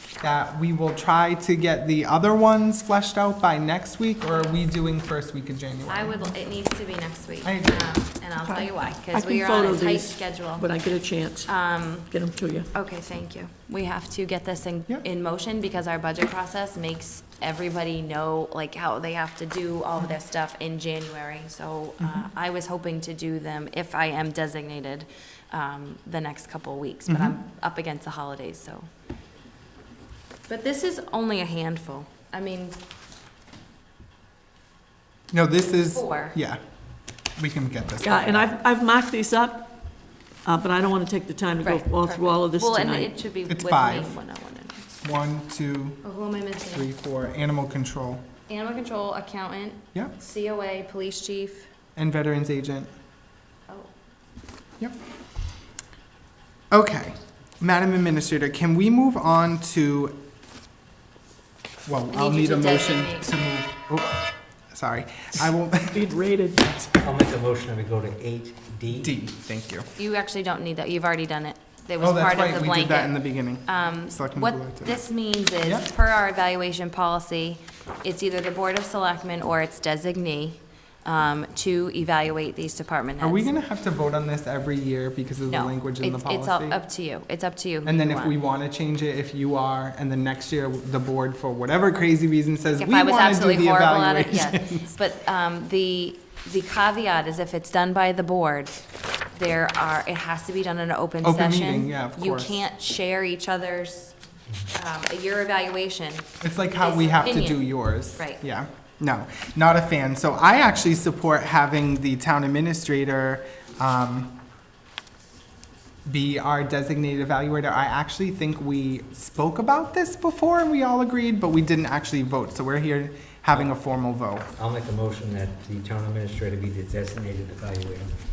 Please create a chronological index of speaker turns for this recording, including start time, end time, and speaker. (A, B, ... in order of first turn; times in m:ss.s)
0:00.2-0:06.2 A
0:04.3-0:04.6 B
0:05.9-0:10.7 B
0:07.4-0:07.9 A
0:08.4-0:11.5 C
0:11.4-0:12.1 B
0:12.1-0:12.7 C
0:12.7-0:28.8 B
0:22.0-0:22.3 A
0:27.1-0:27.4 A
0:30.5-0:32.8 B
0:35.3-0:36.6 A
0:35.9-0:36.4 B
0:37.4-0:38.5 A
0:38.0-0:39.8 C
0:40.4-0:43.1 C
0:41.6-0:44.8 B
0:43.5-0:44.2 A
0:45.0-0:46.0 A
0:46.0-0:46.9 B
0:46.7-0:48.3 A
0:48.5-0:51.7 B
0:52.0-0:52.9 A
0:56.7-1:00.2 A
1:01.8-1:07.0 A
1:02.1-1:03.3 B
1:05.9-1:06.6 C
1:07.0-1:09.1 D
1:09.0-1:09.9 A
1:10.0-1:23.5 B
1:12.0-1:15.0 A
1:15.6-1:15.9 A
1:23.2-1:26.8 A
1:25.5-1:28.4 B
1:27.8-1:34.9 A
1:32.8-1:38.8 B
1:39.4-1:46.3 B
1:41.2-1:42.5 A
1:46.4-1:54.4 A
1:46.8-1:48.4 B
1:56.1-2:04.5 A
2:04.6-2:08.2 D